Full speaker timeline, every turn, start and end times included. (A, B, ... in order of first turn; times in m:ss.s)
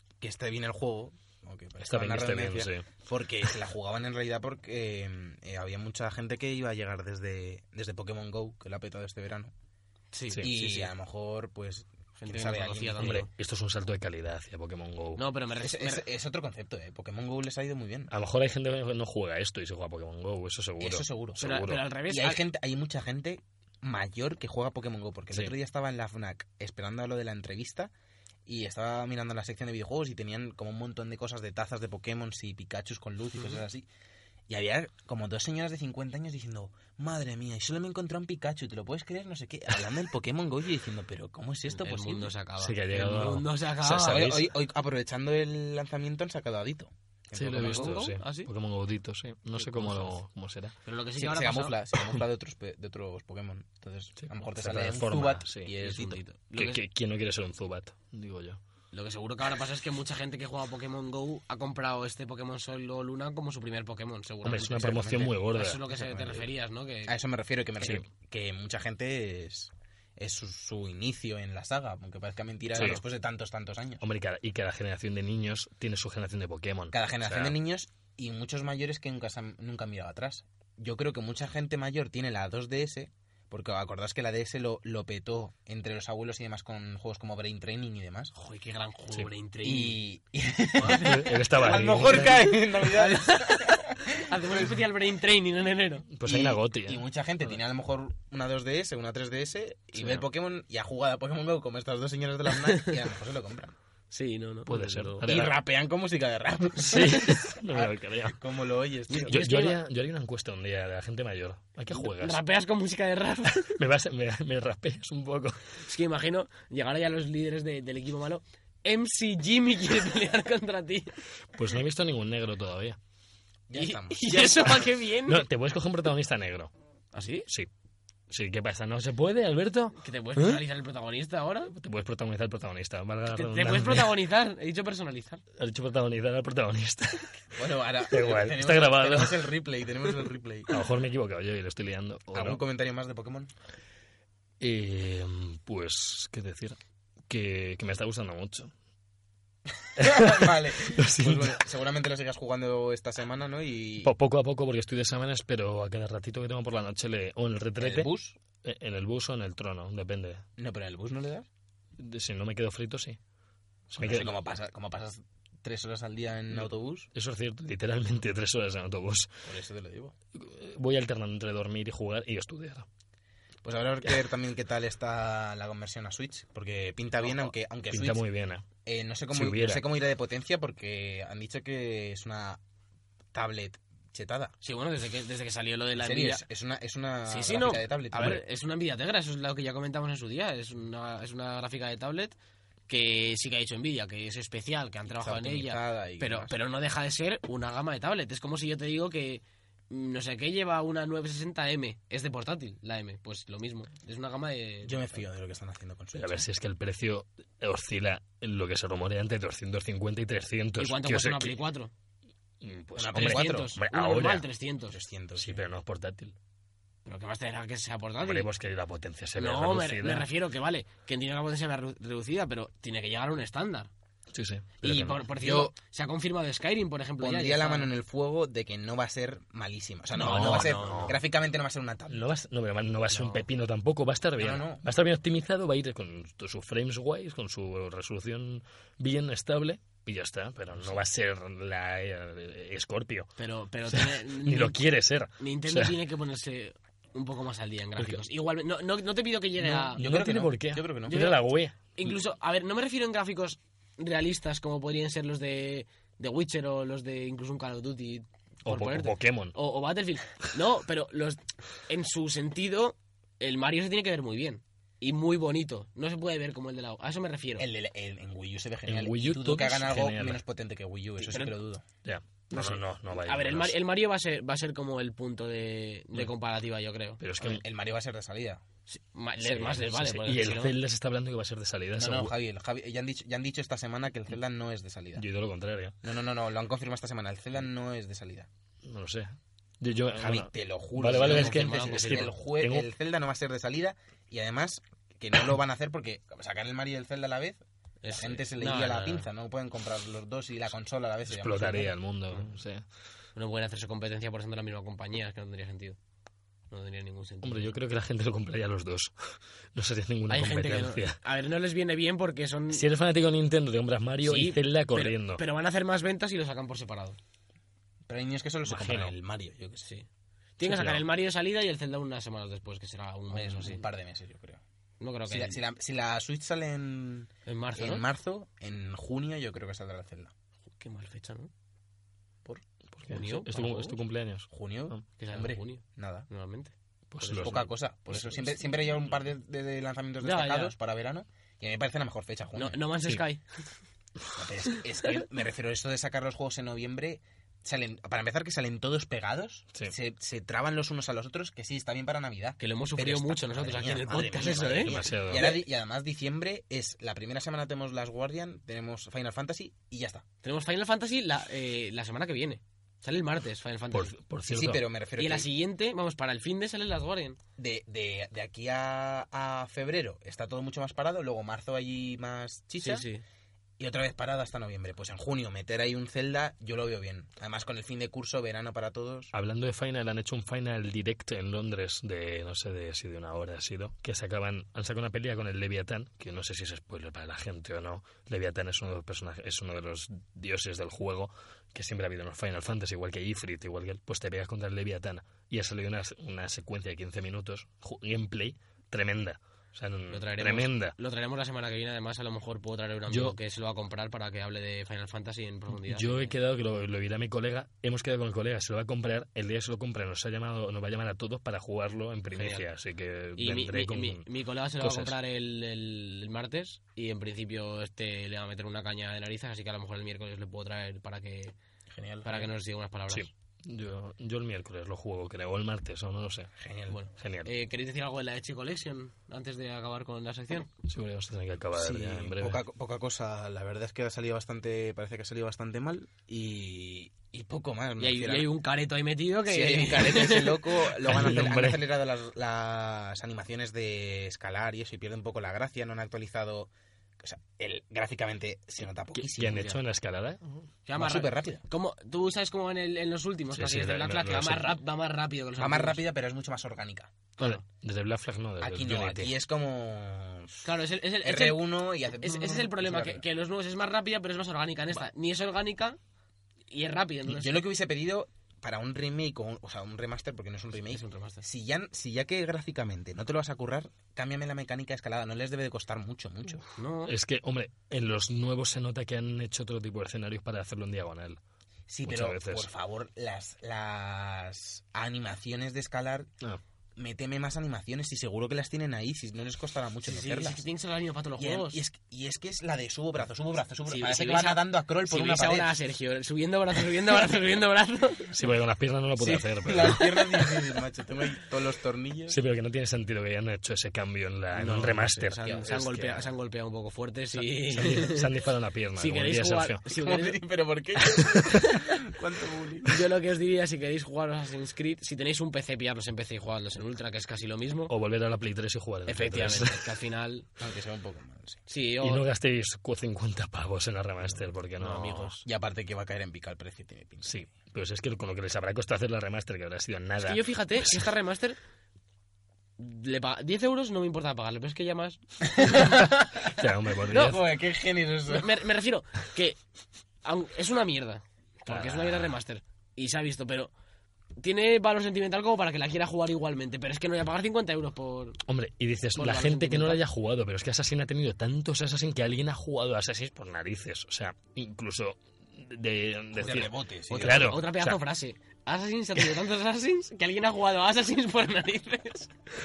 0:00.2-0:09.5 A
0:01.8-0:02.8 B
0:10.1-0:10.9 C
0:10.4-0:13.2 A
0:12.2-0:13.3 C
0:13.0-0:15.2 B
0:15.2-0:16.0 C
0:15.6-0:18.1 A
0:18.1-0:21.8 B
0:20.8-0:21.5 A
0:21.4-0:22.4 C
0:22.1-0:27.9 A
0:28.4-0:33.9 A
0:34.5-0:42.3 A
0:41.7-0:44.3 C
0:42.6-0:44.5 B
0:43.9-0:48.0 A
0:47.3-0:50.7 B
0:47.5-0:48.5 C
0:49.6-0:50.2 C
0:50.8-0:51.8 C
0:51.2-0:56.2 A
0:54.6-0:55.7 B
0:55.8-0:56.8 C
0:56.5-0:58.6 B
0:58.9-1:07.2 C
1:04.4-1:06.4 B
1:04.8-1:05.3 A
1:07.0-1:14.0 A
1:12.7-1:13.0 B
1:14.0-1:17.6 B
1:16.9-1:28.3 A
1:28.3-1:30.0 C
1:29.6-1:34.2 A
1:30.8-1:32.5 B
1:30.8-1:36.1 C
1:36.1-1:37.0 B
1:36.2-1:43.7 A
1:44.1-1:45.2 C
1:44.7-1:45.5 B
1:45.2-1:49.7 A
1:46.8-1:48.4 B
1:49.1-1:49.8 C
1:49.3-1:52.4 B
1:51.9-1:53.8 C
1:53.5-1:55.6 B
1:55.8-2:01.2 C
2:01.5-2:03.0 B
2:03.7-2:04.5 A
2:03.7-2:05.4 C
2:04.4-2:06.7 B
2:07.1-2:07.5 C
2:08.3-2:10.6 B
2:10.0-2:11.7 C
2:11.7-2:14.1 B
2:13.3-2:15.4 C
2:15.6-2:17.4 B
2:17.5-2:20.8 A
2:18.1-2:19.5 B
2:20.7-2:22.6 B
2:22.3-2:23.5 A
2:24.6-2:28.7 B
2:30.0-2:34.1 A
2:30.0-2:31.6 B
2:34.0-2:38.1 B
2:37.8-2:38.4 A
2:38.6-2:40.4 B
2:40.6-2:41.5 A
2:42.0-2:43.2 B
2:43.9-2:44.3 B
2:43.9-2:47.1 A
2:46.5-2:49.3 B
2:49.4-2:50.1 A
2:50.3-2:52.8 B
2:53.6-2:58.2 A
2:57.9-2:58.6 B
2:58.8-3:02.6 A
2:59.3-2:59.8 B
3:03.3-3:04.6 A
3:04.6-3:06.4 C
3:06.0-3:08.4 A
3:07.3-3:12.4 C
3:08.1-3:08.4 B
3:12.9-3:25.2 C
3:15.1-3:16.5 A
3:24.8-3:26.4 A
3:26.2-3:31.6 B
3:30.8-3:31.9 C
3:32.6-3:34.5 B
3:33.0-3:33.8 A
3:33.1-3:35.0 C
3:34.9-3:35.6 A
3:35.4-3:36.3 B
3:37.0-3:38.5 C
3:38.2-3:40.3 B
3:39.4-3:43.9 C
3:44.3-3:45.2 B
3:44.8-3:47.9 C
3:45.2-3:45.7 A
3:47.2-3:52.3 A
3:50.1-3:51.2 B
3:50.1-3:51.1 C
3:52.1-4:03.3 B
3:53.1-3:53.4 C
3:54.4-3:54.8 A
4:03.4-4:04.8 C
4:03.9-4:06.0 B
4:05.4-4:10.0 C
4:09.7-4:11.3 A
4:09.7-4:12.1 B
4:11.1-4:11.4 C
4:11.9-4:27.7 C
4:18.6-4:19.6 B
4:27.6-4:31.8 A
4:28.8-4:30.4 B
4:31.2-4:31.6 C
4:32.0-4:33.8 B
4:32.5-4:37.2 C
4:37.2-4:37.6 B
4:37.4-4:38.6 A
4:38.9-4:40.7 C
4:39.4-4:42.3 B
4:42.0-4:45.2 A
4:45.2-4:46.0 B
4:46.0-4:48.5 A
4:48.8-4:52.9 B
4:50.2-4:57.6 A
4:51.2-4:52.3 C
4:58.0-4:59.3 C
4:58.2-5:01.9 A
5:01.3-5:02.8 B
5:03.3-5:06.0 C
5:06.7-5:07.8 C
5:07.4-5:11.2 B
5:10.3-5:12.8 C
5:12.7-5:15.4 B
5:14.2-5:17.2 C
5:18.1-5:19.9 A
5:18.7-5:19.1 B
5:20.6-5:23.8 C
5:20.6-5:21.0 B
5:23.3-5:24.6 A
5:25.0-5:25.6 C
5:25.3-5:30.3 A
5:27.4-5:28.0 C
5:30.8-5:31.5 C
5:32.4-5:34.0 C
5:32.9-5:35.0 B
5:34.5-5:36.3 A
5:35.2-5:38.6 C
5:37.1-5:37.7 B
5:37.4-5:42.8 A
5:40.2-5:40.7 C
5:42.5-5:43.4 C
5:44.3-6:00.2 A
5:52.6-5:55.6 C
5:54.8-5:55.6 B
6:00.4-6:04.2 C
6:03.9-6:04.9 B
6:04.5-6:05.5 A
6:05.2-6:07.4 C
6:07.6-6:13.1 A
6:12.8-6:13.2 C
6:13.8-6:19.3 A
6:19.3-6:41.0 B
6:40.1-6:46.3 C
6:43.1-6:43.4 B
6:45.8-6:54.2 B
6:52.4-6:52.7 C
6:53.4-7:01.6 C
6:54.8-6:55.2 B
7:01.9-7:02.5 A
7:02.2-7:03.3 C
7:03.1-7:06.5 B
7:06.6-7:07.0 A
7:06.9-7:10.7 C
7:07.1-7:07.5 B
7:10.8-7:12.6 B
7:11.7-7:18.5 A
7:18.0-7:21.0 C
7:19.5-7:26.7 A
7:21.0-7:21.9 B
7:27.2-7:29.8 A
7:29.2-7:30.7 B
7:30.8-7:36.0 C
7:31.0-7:31.6 A
7:33.5-7:34.8 B
7:35.6-7:37.1 A
7:37.4-7:39.3 B
7:38.6-7:40.7 A
7:40.6-7:41.6 C
7:41.2-7:43.2 A
7:42.2-7:46.0 C
7:46.7-7:47.6 C
7:47.3-7:56.7 A
7:50.9-7:51.4 C
7:56.7-7:57.1 C
7:57.1-8:01.4 B
8:01.9-8:06.3 A
8:02.0-8:02.7 B
8:07.0-8:10.6 A
8:10.1-8:11.8 C
8:11.4-8:15.7 A
8:13.9-8:18.3 C
8:18.3-8:20.7 B
8:19.2-8:22.4 A
8:22.3-8:26.2 B
8:24.5-8:28.3 C
8:25.4-8:26.2 A
8:27.5-8:29.8 B
8:29.0-8:30.4 C
8:29.9-8:32.9 A
8:31.2-8:31.6 B
8:32.8-8:37.9 C
8:37.9-8:39.8 B
8:39.1-8:40.5 C
8:40.6-8:41.6 A
8:41.7-8:42.2 C
8:42.0-8:45.3 B
8:44.8-8:45.4 C
8:45.4-8:47.4 A
8:47.2-8:51.0 B
8:50.2-8:51.6 C
8:52.8-8:55.9 C
8:55.6-8:58.5 A
8:56.4-8:57.4 B
8:57.1-8:57.4 C
8:58.3-8:59.6 C
9:00.2-9:03.7 C
9:01.7-9:02.4 B
9:04.4-9:08.4 C
9:08.5-9:18.0 B
9:09.2-9:10.0 C
9:16.3-9:17.6 A
9:17.1-9:22.3 C